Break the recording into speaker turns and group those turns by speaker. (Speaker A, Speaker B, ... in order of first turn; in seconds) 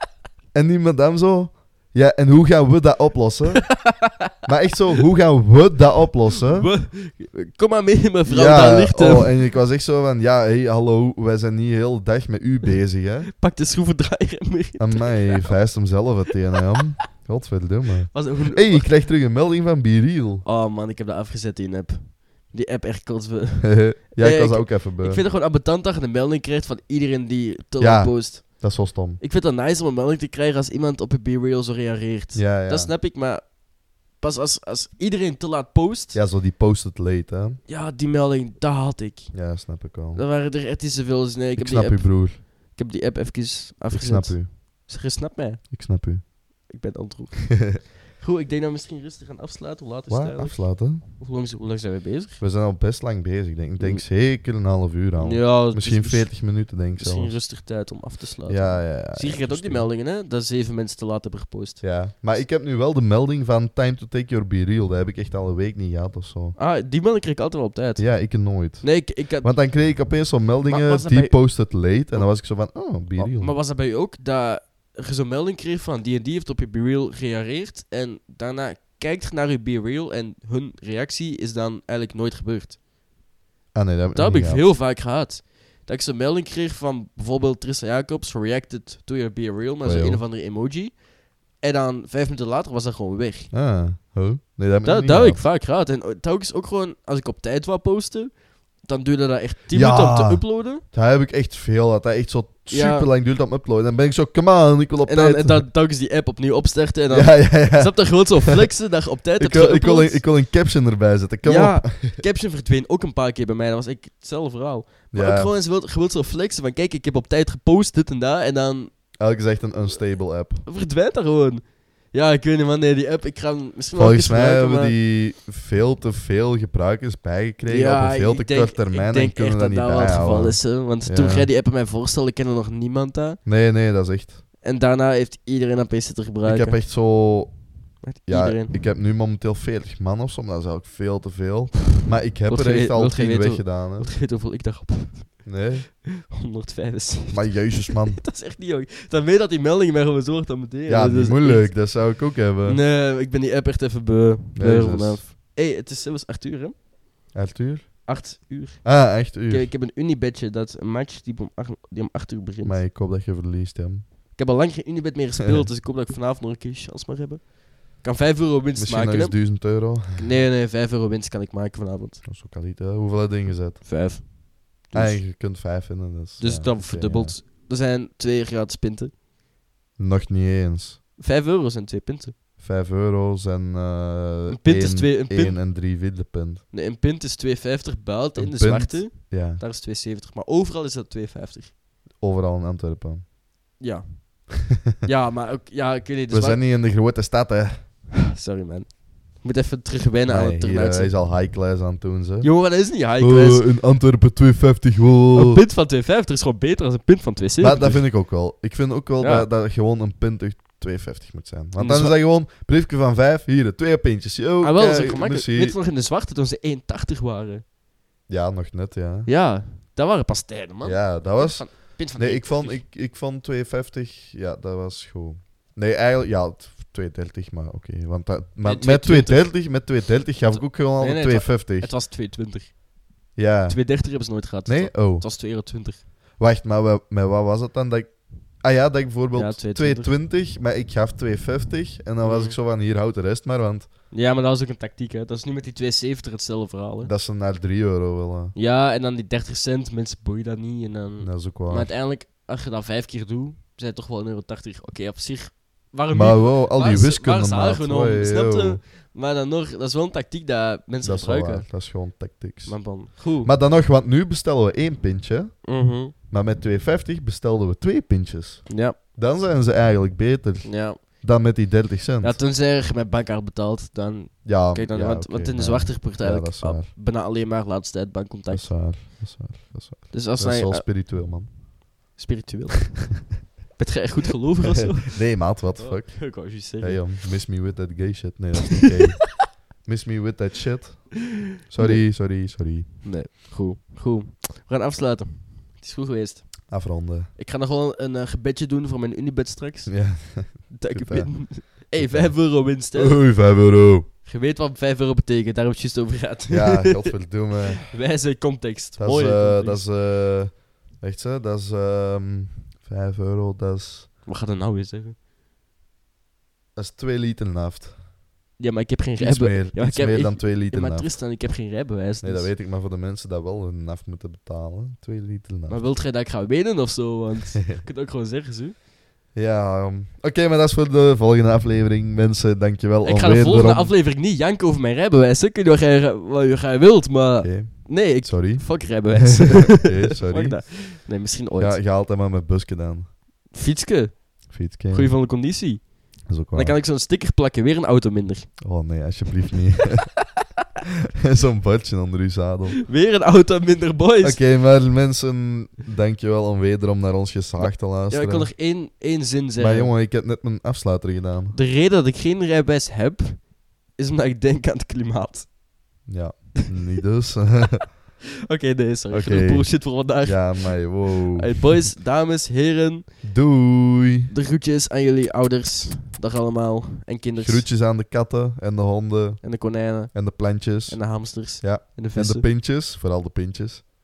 Speaker A: 0.5-3.7, 4.4-6.7, 8.3-13.3, 14.8-20.4, 23.6-25.2, 27.8-29.2, 32.3-32.9, 36.1-37.6, 39.3-40.2, 41.6-42.4, 43.9-44.5, 45.7-46.2, 50.1-51.0, 52.4-57.3, 58.5-59.8, 61.8-66.5, 68.0-73.5, 83.7-84.6, 89.8-90.2, 93.5-95.4, 99.7-105.6, 107.1-108.6, 109.4-112.2, 115.1-115.5, 119.2-120.6, 124.0-131.5, 133.4-134.4, 136.4-137.5, 138.3-144.1, 145.4-145.9, 147.3-148.2, 150.9-152.8, 154.6-155.2, 157.3-158.1, 158.8-159.7, 162.6-164.0, 165.4-165.7, 168.8-170.2, 172.2-173.8, 174.9-177.3, 180.0-181.0, 182.6-186.6, 188.4-189.6, 192.2-193.2, 196.3-197.8, 200.3-202.5, 203.2-205.6, 207.6-215.8, 218.3-219.3, 220.8-231.9, 233.3-233.8, 234.7-235.2, 236.4-243.9, 247.0-248.5, 251.2-251.9, 256.1-258.8, 261.0-262.8, 263.4-265.6, 266.3-272.4, 274.4-276.9, 278.5-281.5, 284.6-292.9, 296.7-297.3, 299.9-304.1, 306.5-307.9, 309.0-314.1, 316.8-317.9, 319.2-321.1, 322.2-325.8, 327.5-327.8, 329.3-333.9, 337.4-340.8, 341.6-343.1, 344.5-345.1, 346.3-346.8, 348.6-350.1, 351.2-352.8, 354.2-358.5, 359.6-361.6, 366.1-367.9, 369.1-369.7, 370.2-371.8, 373.2-374.3, 377.4-379.4, 380.1-383.8
Speaker B: 3.7-4.3, 6.4-9.3, 13.3-15.6, 18.1-18.9, 20.4-28.6, 29.2-33.4, 34.2-36.2, 37.7-39.3, 40.1-45.6, 46.7-50.6, 51.2-52.4, 55.2-56.3, 57.0-61.8, 66.6-68.0, 68.8-69.5, 70.6-71.3, 73.2-82.8, 84.1-91.0, 91.6-93.5, 94.8-98.3, 98.8-100.8, 102.7-103.1, 105.1-110.2, 111.4-118.9, 120.7-121.6, 122.1-124.9, 127.7-133.4, 134.6-136.8, 138.0-138.7, 142.5-145.4, 146.0-151.7, 152.7-156.7, 158.1-162.8, 164.3-169.5, 170.2-172.2, 173.8-174.3, 174.8-175.2, 176.4-179.1, 181.2-182.3, 184.5-185.6, 186.7-191.7, 193.8-194.4, 195.0-196.6, 198.1-201.1, 202.4-203.6, 205.3-208.0, 209.2-209.5, 211.8-212.2, 214.6-217.6, 219.2-222.8, 228.6-229.5, 230.5-232.7, 233.7-236.0, 239.3-240.1, 242.2-242.6, 244.1-247.1, 248.5-261.7, 262.6-263.5, 265.6-266.1, 268.7-268.9, 270.6-271.0, 272.2-278.7, 280.1-280.9, 282.1-283.1, 283.8-285.2, 285.7-287.1, 288.8-289.4, 291.8-292.0, 293.0-296.6, 297.4-299.9, 300.7-303.2, 304.2-307.1, 307.9-309.9, 314.2-315.1, 318.6-322.5, 325.7-328.7, 333.0-341.8, 343.5-344.4, 344.9-345.9, 346.5-348.5, 352.9-354.4, 357.6-359.9, 361.5-363.4, 363.9-365.5, 368.5-370.8, 371.3-373.0, 374.3-377.6, 379.4-380.1, 380.9-382.5